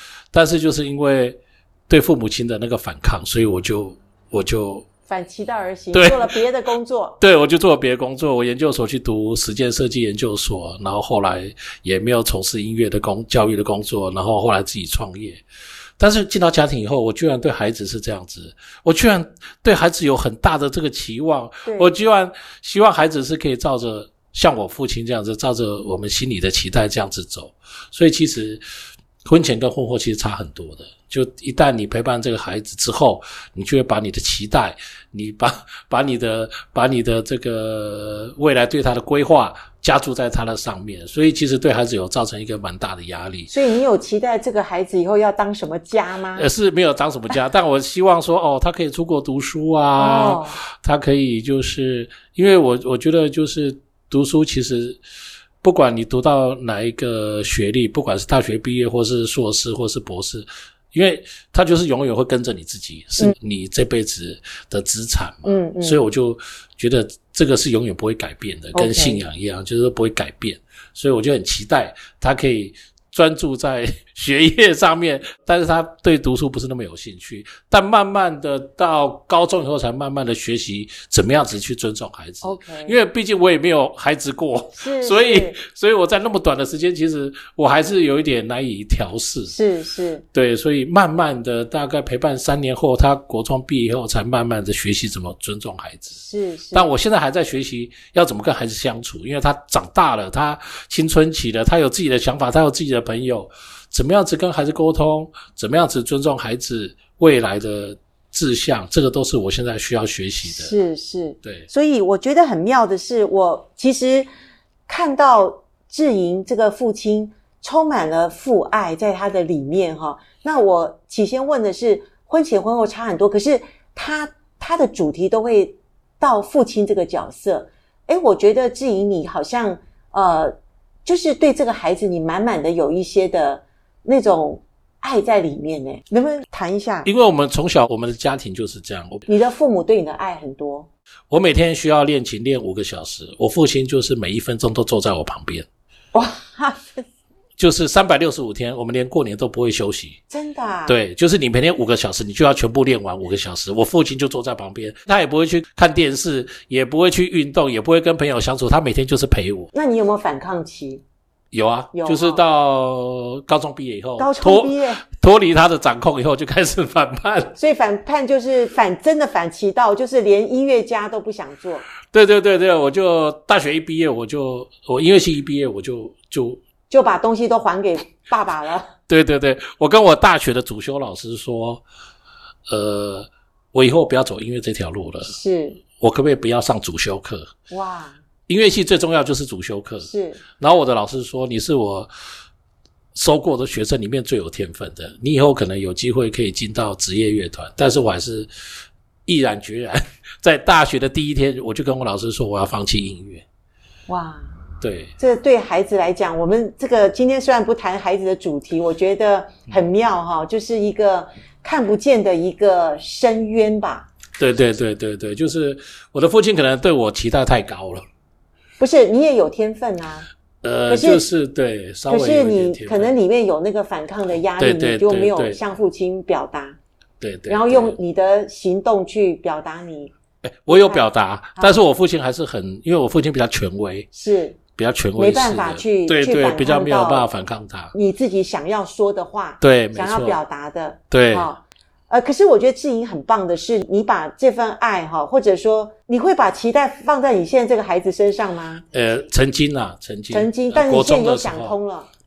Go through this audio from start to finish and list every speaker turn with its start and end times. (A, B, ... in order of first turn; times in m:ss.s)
0:00.3-0:04.9 A
0:05.1-0:07.2 B
0:05.9-0:06.3 A
0:07.2-0:15.4 A
0:16.0-0:28.6 A
0:21.6-0:21.9 B
0:29.2-0:43.5 A
0:43.5-0:46.5 B
0:46.4-0:55.0 A
0:50.0-0:50.6 B
0:55.6-1:29.6 A
1:05.4-1:06.0 B
1:08.7-1:09.2 B
1:22.4-1:23.0 B
1:24.8-1:25.6 B
1:29.5-1:30.2 B
1:30.3-1:50.7 A
1:36.2-1:36.9 B
1:50.4-1:54.3 B
1:51.4-1:51.7 A
1:54.9-2:10.5 B
2:11.0-2:17.1 B
2:17.1-2:19.2 A
2:19.3-2:20.9 B
2:21.3-2:25.7 A
2:26.1-2:27.1 B
2:27.6-2:30.2 A
2:30.3-2:31.0 B
2:30.9-2:39.7 A
2:39.7-2:41.0 B
2:41.5-2:47.6 A
2:41.9-2:42.4 B
2:44.2-2:45.0 B
2:47.6-2:51.8 B
2:52.1-2:56.6 A
2:56.9-2:58.9 B
2:59.1-3:01.8 A
3:02.7-3:05.3 A
3:05.3-3:05.8 B
3:06.0-3:07.5 A
3:07.7-3:08.2 B
3:08.5-3:12.1 A
3:10.0-3:10.4 B
3:13.2-3:18.5 A
3:19.3-3:23.4 A
3:24.1-3:24.5 B
3:24.8-3:25.1 A
3:25.2-3:34.1 B
3:34.4-3:38.0 A
3:38.8-3:40.3 B
3:40.6-3:43.1 A
3:40.9-3:41.2 B
3:42.1-3:46.8 B
3:44.6-3:45.6 A
3:47.2-3:48.0 A
3:47.5-3:50.1 B
3:50.4-3:54.1 A
3:50.7-3:51.0 B
3:54.1-3:54.6 B
3:54.8-3:57.9 A
3:55.2-3:57.3 B
3:57.9-4:08.8 B
3:59.6-4:00.4 A
4:01.1-4:01.5 A
4:08.9-4:11.8 A
4:10.3-4:12.1 B